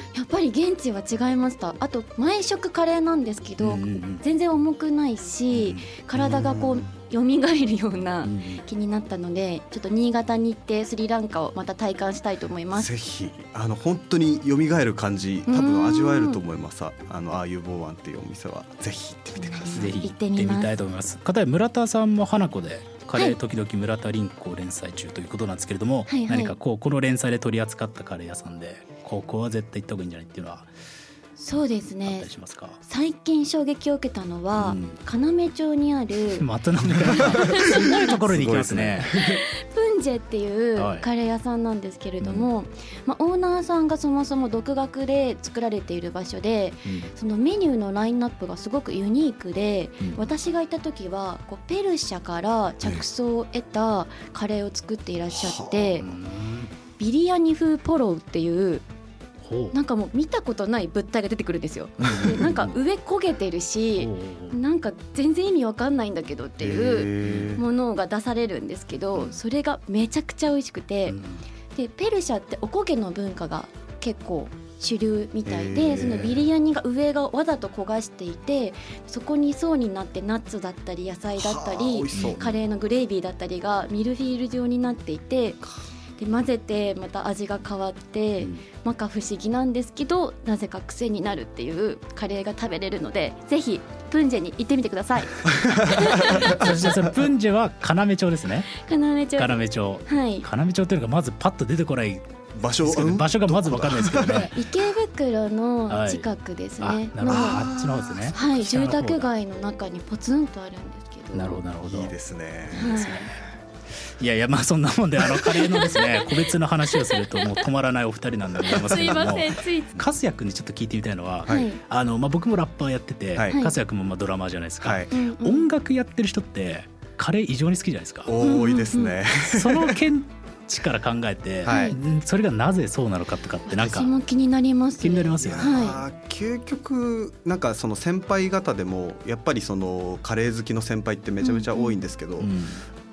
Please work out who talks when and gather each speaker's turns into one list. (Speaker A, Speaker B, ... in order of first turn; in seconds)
Speaker A: 0.1-12.9, 15.5-16.4, 19.4-20.7, 26.1-26.6, 31.4-32.3, 32.8-36.5, 37.1-38.2, 39.1-56.0, 57.0-58.8, 59.7-71.2, 71.7-85.6, 86.2-96.4, 98.7-100.5, 104.4-107.7, 108.3-111.6, 112.8-113.3, 115.3-117.6, 118.6-120.0, 121.5-121.8, 123.5-123.7, 125.1-125.7, 128.4-129.2, 131.7-132.0, 133.7-136.0, 141.4-142.0
Speaker B: 3.6-4.2, 8.2-8.6, 19.7-30.7, 32.0-32.8, 34.6-35.0, 36.3-39.1, 40.8-41.0, 42.2-42.5, 46.8-47.1, 56.0-56.7, 59.4-59.8, 62.0-62.7, 64.0-64.6, 67.2-67.6, 71.1-71.4, 82.1-82.6, 88.4-88.6, 96.0-98.7, 99.3-102.3, 102.8-104.5, 105.9-106.3, 106.8-109.3, 111.3-112.1, 112.8-113.2, 114.1-128.3, 129.4-134.1, 135.0-135.9, 142.4-142.8
Speaker C: 5.5-6.8, 12.7-19.9, 37.2-39.4, 55.3-56.0, 66.6-67.6, 75.5-76.3, 81.3-82.4, 95.4-97.1, 102.5-104.6, 107.2-108.3, 111.8-113.3, 118.7-119.4, 123.3-123.6, 124.8-125.1, 128.2-130.0, 131.6-132.0, 135.4-142.5